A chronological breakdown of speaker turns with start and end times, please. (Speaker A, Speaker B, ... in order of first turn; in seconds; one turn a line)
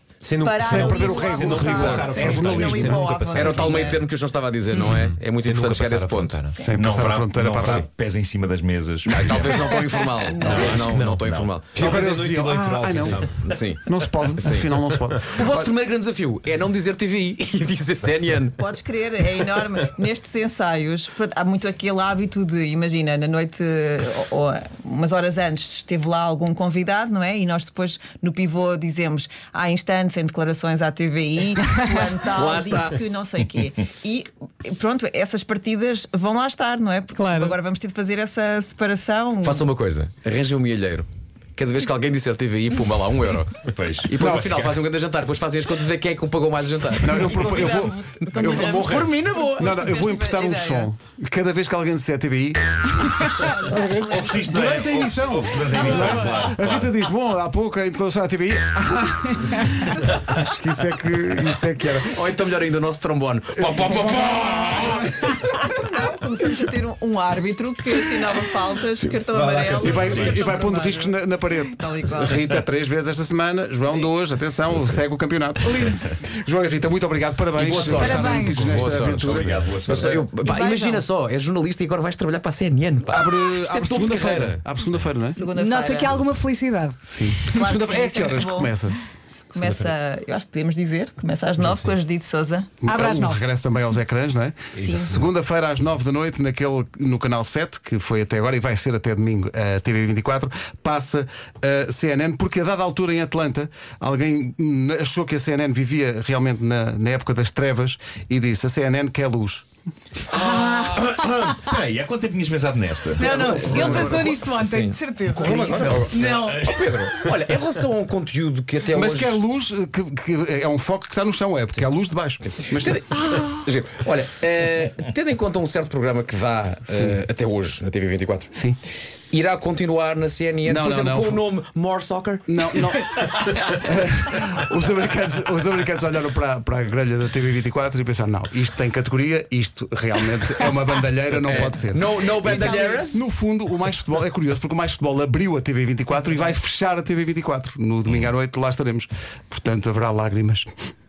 Speaker A: 0.2-4.1
Speaker B: 0.4-4.0
Speaker C: 0.6-3.0
Speaker D: 3.3-6.4
Speaker A: 4.7-6.8
Speaker C: 6.6-7.9
Speaker E: 6.7-9.7
Speaker D: 7.6-7.9
Speaker D: 9.1-11.9
Speaker B: 10.2-10.9
Speaker A: 10.3-13.5
Speaker E: 10.4-11.5
Speaker C: 11.7-13.2
Speaker D: 12.9-14.7
Speaker C: 13.8-15.7
Speaker D: 15.3-18.6
Speaker B: 18.6-39.7
Speaker D: 32.2-33.0
Speaker F: 37.2-37.6
Speaker D: 39.4-47.6
Speaker E: 43.7-44.2
Speaker C: 44.2-44.8
Speaker C: 47.0-62.2
Speaker B: 47.1-50.9
Speaker D: 48.3-49.7
Speaker B: 53.4-54.5
Speaker E: 54.1-57.0
Speaker B: 56.0-56.3
Speaker D: 62.1-65.0
Speaker C: 63.6-65.0
Speaker B: 64.8-72.5
Speaker A: 69.3-70.6
Speaker C: 69.8-80.2
Speaker D: 77.5-84.6
Speaker F: 77.9-78.7
Speaker A: 79.0-80.2
Speaker E: 79.3-79.8
Speaker B: 80.5-81.0
Speaker C: 83.1-85.5
Speaker B: 85.3-86.3
Speaker F: 85.4-87.0
Speaker C: 87.1-89.0
Speaker B: 87.5-88.8
Speaker B: 89.5-92.7
Speaker A: 89.5-89.9
Speaker A: 91.6-91.9
Speaker C: 92.8-109.6
Speaker F: 92.8-93.5
Speaker B: 94.7-95.2
Speaker A: 94.9-95.2
Speaker D: 110.4-110.9
Speaker E: 110.4-113.9
Speaker F: 113.2-116.7
Speaker C: 113.2-114.5
Speaker D: 113.9-119.4
Speaker C: 115.5-116.0
Speaker E: 115.5-116.0
Speaker C: 118.9-123.0
Speaker D: 122.5-128.7
Speaker C: 126.9-127.2
Speaker D: 129.3-132.5
Speaker C: 130.7-131.4
Speaker C: 132.5-150.7
Speaker D: 141.4-143.2
Speaker F: 142.5-143.1